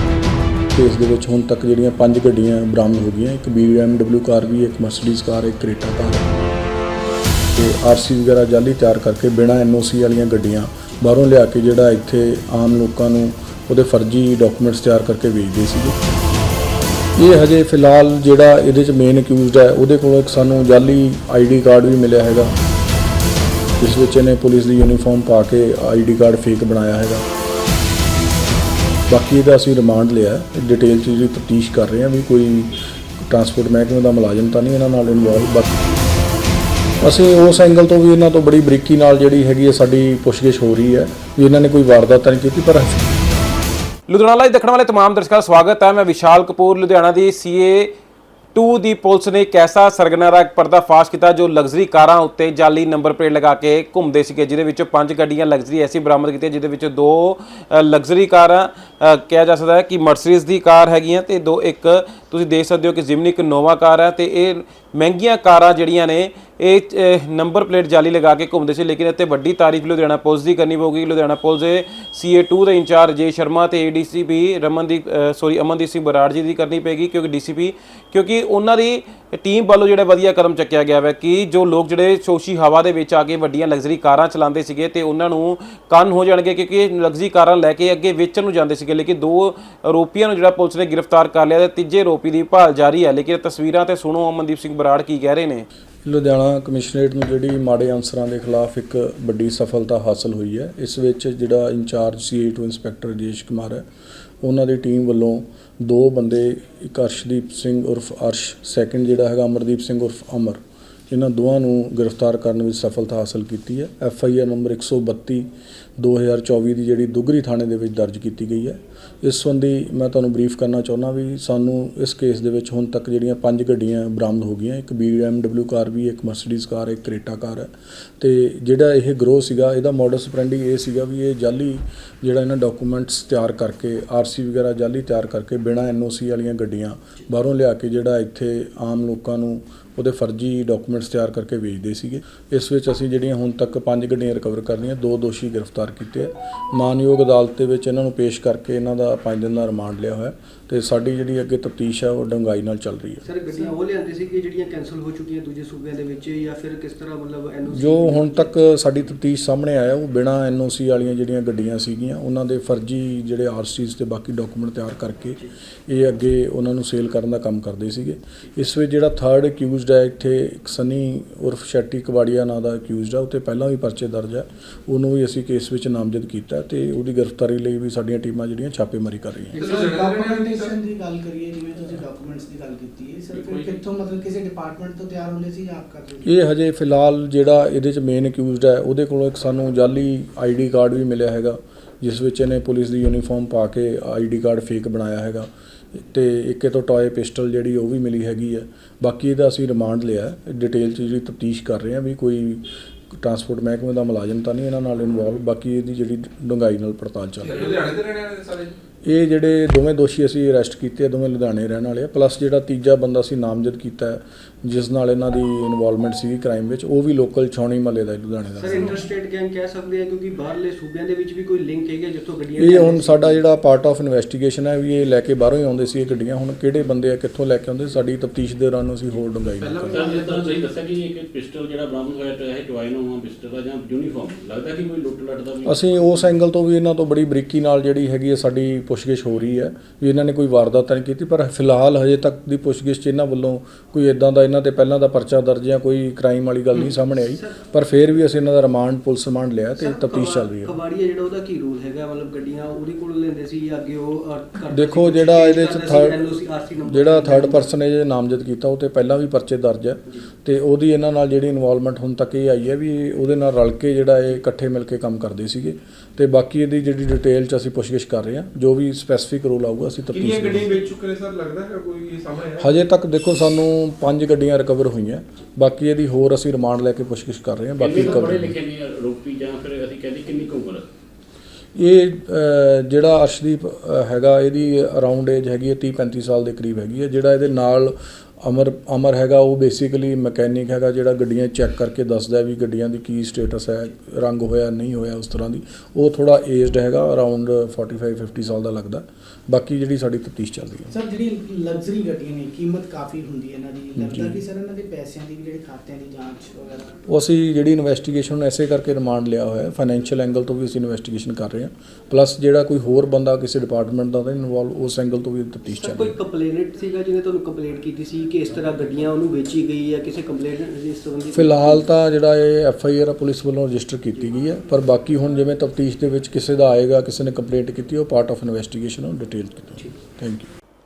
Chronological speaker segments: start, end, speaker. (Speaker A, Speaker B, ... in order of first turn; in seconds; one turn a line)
Speaker A: 0.7-6.3
Speaker A: 7.5-15.9
Speaker A: 17.2-22.5
Speaker A: 23.8-27.2
Speaker A: 29.1-35.7
Speaker A: 37.0-43.1
Speaker B: 44.1-47.9
Speaker B: 48.5-95.7
Speaker A: 96.0-103.8
Speaker A: 104.4-153.3
Speaker C: 153.2-158.5
Speaker A: 157.7-179.6
Speaker D: 179.5-186.3
Speaker E: 179.6-180.7
Speaker A: 186.2-207.9
Speaker E: 207.4-208.7
Speaker A: 209.0-219.0
Speaker C: 218.6-223.4
Speaker A: 222.6-230.1
Speaker F: 229.8-236.3
Speaker E: 230.0-230.5
Speaker A: 235.6-250.7
Speaker C: 246.8-247.6
Speaker C: 249.8-257.7
Speaker A: 254.7-256.2
Speaker A: 256.9-270.7
Speaker E: 270.1-272.8
Speaker A: 272.6-278.6
Speaker F: 277.8-280.9
Speaker A: 281.8-300.9
Speaker D: 300.9-306.9
Speaker A: 304.0-304.4
Speaker A: 307.1-316.1
Speaker C: 315.6-321.9
Speaker A: 321.3-330.5